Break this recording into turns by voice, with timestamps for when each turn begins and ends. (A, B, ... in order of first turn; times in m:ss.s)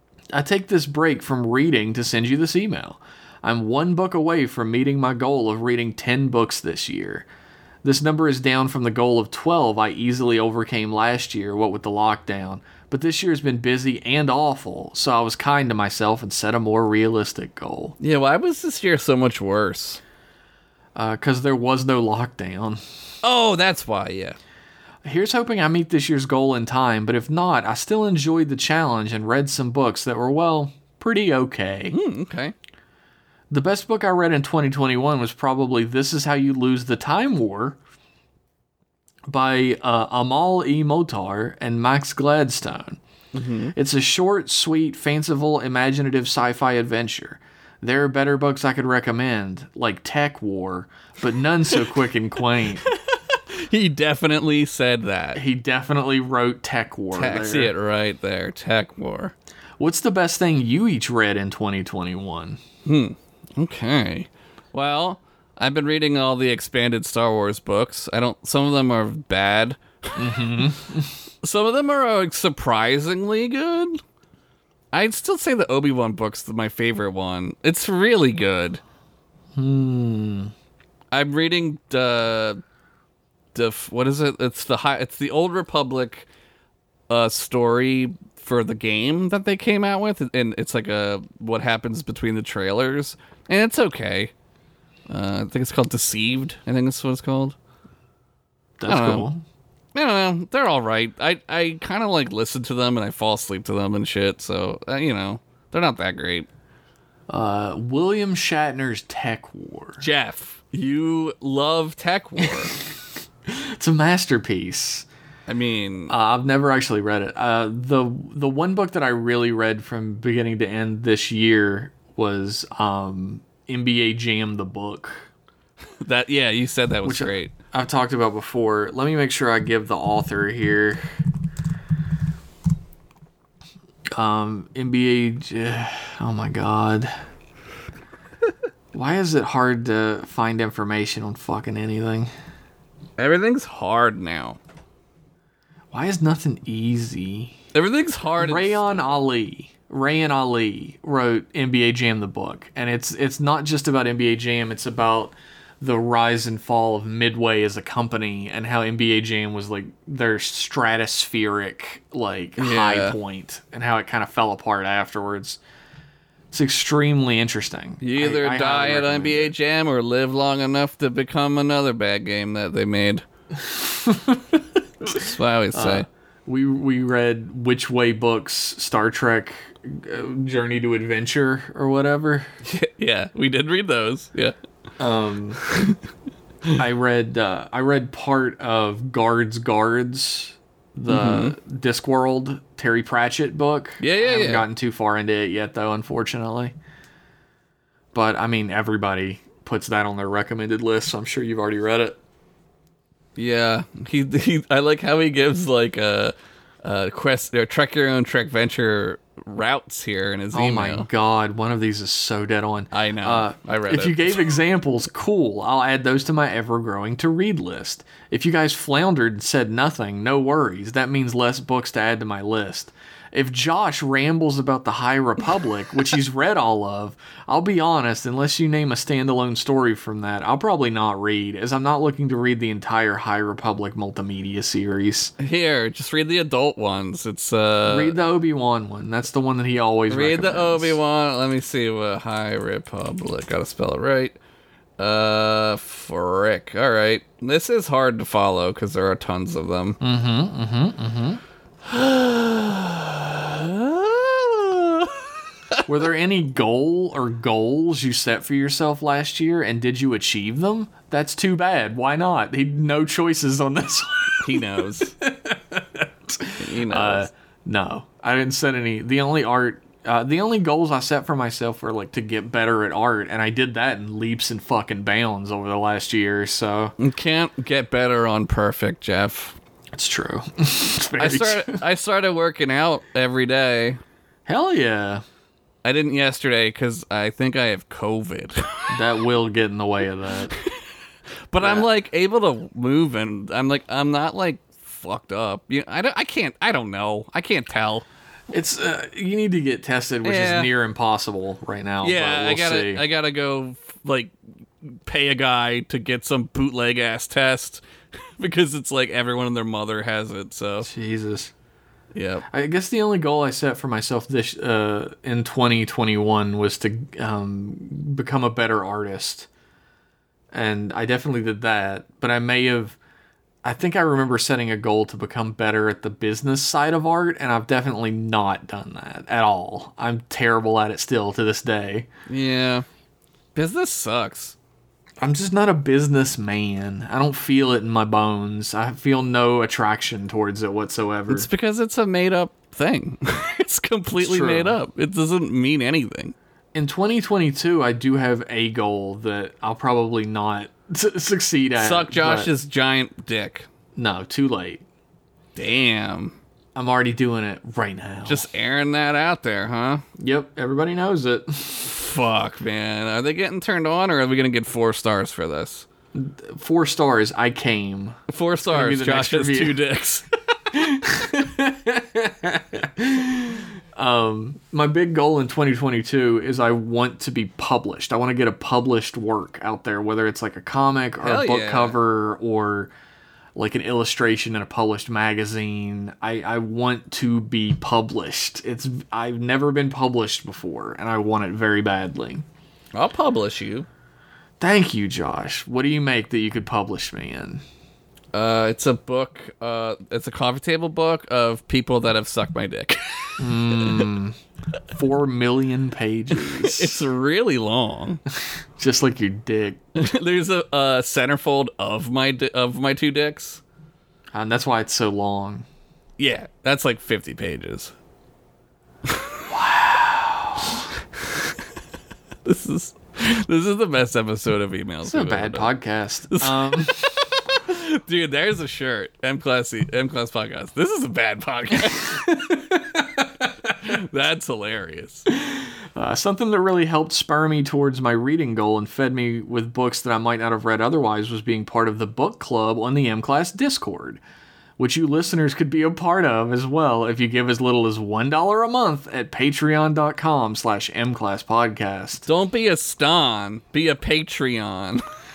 0:00.3-0:07.3 A
0:07.8-0:18.0 A
0:18.0-0:20.0 B
0:21.0-0:22.8 A
0:23.2-0:24.4 B
0:25.0-0:32.0 A
0:31.9-0:32.5 B
0:33.5-0:37.8 A
0:39.3-0:43.0 A
0:43.3-0:43.7 B
0:43.8-0:52.9 A
0:53.5-0:55.4 B
0:55.4-0:57.7 A
0:57.1-0:59.3 B
0:59.8-1:02.6 A
1:02.9-1:10.2 B
1:10.2-1:11.1 A
1:11.4-1:14.0 B
1:14.9-1:18.8 B
1:19.6-1:20.5 A
1:21.1-1:22.6 B
1:23.5-1:26.3 B
1:27.1-1:34.3 B
1:35.1-1:37.6 B
1:38.8-1:39.4 A
1:38.9-1:39.3 B
1:40.0-1:46.5 B
1:47.3-1:50.0 A
1:50.0-1:52.8 B
1:53.5-1:55.1 A
1:55.5-1:56.1 B
1:56.1-2:05.3 A
2:06.0-2:07.5 B
2:07.0-2:11.0 A
2:14.1-2:17.1 A
2:18.9-2:22.3 A
2:23.2-2:24.6 B
2:25.9-2:27.6 A
2:27.7-2:29.2 B
2:28.4-2:45.6 A
2:42.6-2:43.2 B
2:46.5-2:49.5 A
2:48.0-2:53.2 B
2:53.6-2:55.2 A
2:55.1-2:56.1 B
2:55.7-3:02.5 A
3:02.6-3:04.6 B
3:05.0-3:05.6 A
3:06.8-3:16.7 A
3:11.1-3:11.6 B
3:14.0-3:14.7 B
3:18.1-3:22.2 A
3:23.4-3:31.1 B
3:30.5-3:55.3 A
3:32.9-3:34.4 B
3:55.4-3:58.2 B
3:57.9-4:01.0 A
4:00.1-4:04.4 B
4:05.0-4:10.0 B
4:10.0-4:11.4 A
4:11.9-4:15.2 B
4:15.9-4:37.0 A
4:24.4-4:25.1 B
4:26.6-4:27.3 B
4:37.0-4:39.6 B
4:39.9-4:41.8 A
4:41.2-4:44.0 B
4:44.5-4:45.2 A
4:45.8-4:48.9 B
4:48.9-4:50.5 A
4:51.5-4:58.0 B
4:51.6-4:51.9 A
4:58.5-5:03.0 A
5:00.2-5:00.7 B
5:02.0-5:04.3 B
5:04.8-5:07.8 B
5:08.4-5:10.9 B
5:10.8-5:11.5 A
5:12.1-5:12.4 B
5:12.5-5:19.5 A
5:20.5-5:23.0 A
5:23.6-5:32.1 A
5:32.3-5:32.8 B
5:33.6-5:34.6 B
5:35.2-5:41.5 A
5:41.3-5:46.4 B
5:44.2-5:44.8 A
5:46.7-5:52.5 A
5:51.8-5:53.7 B
5:54.0-5:54.8 A
5:55.6-5:56.4 B
5:56.8-5:58.5 A
5:58.3-6:00.0 B
6:00.2-6:01.9 A
6:01.8-6:05.9 B
6:06.1-6:09.8 A
6:08.3-6:10.3 B
6:10.7-6:22.9 A
6:21.2-6:22.0 B
6:23.6-6:32.4 A
6:32.9-6:33.9 B
6:34.6-6:37.6 A
6:38.3-6:44.0 B
6:43.4-6:44.4 A
6:45.0-6:47.0 A
6:46.3-6:48.2 B
6:48.8-6:49.8 A
6:50.0-6:53.6 B
6:54.3-6:55.7 A
6:56.2-6:57.9 B
6:59.1-6:59.4 B
6:59.5-7:00.8 A
7:02.4-7:05.7 B
7:05.0-7:07.2 A
7:06.3-7:12.2 B
7:12.0-7:13.7 A
7:13.8-7:15.2 B
7:15.3-7:24.2 A
7:24.8-7:32.3 A
7:32.3-7:35.0 B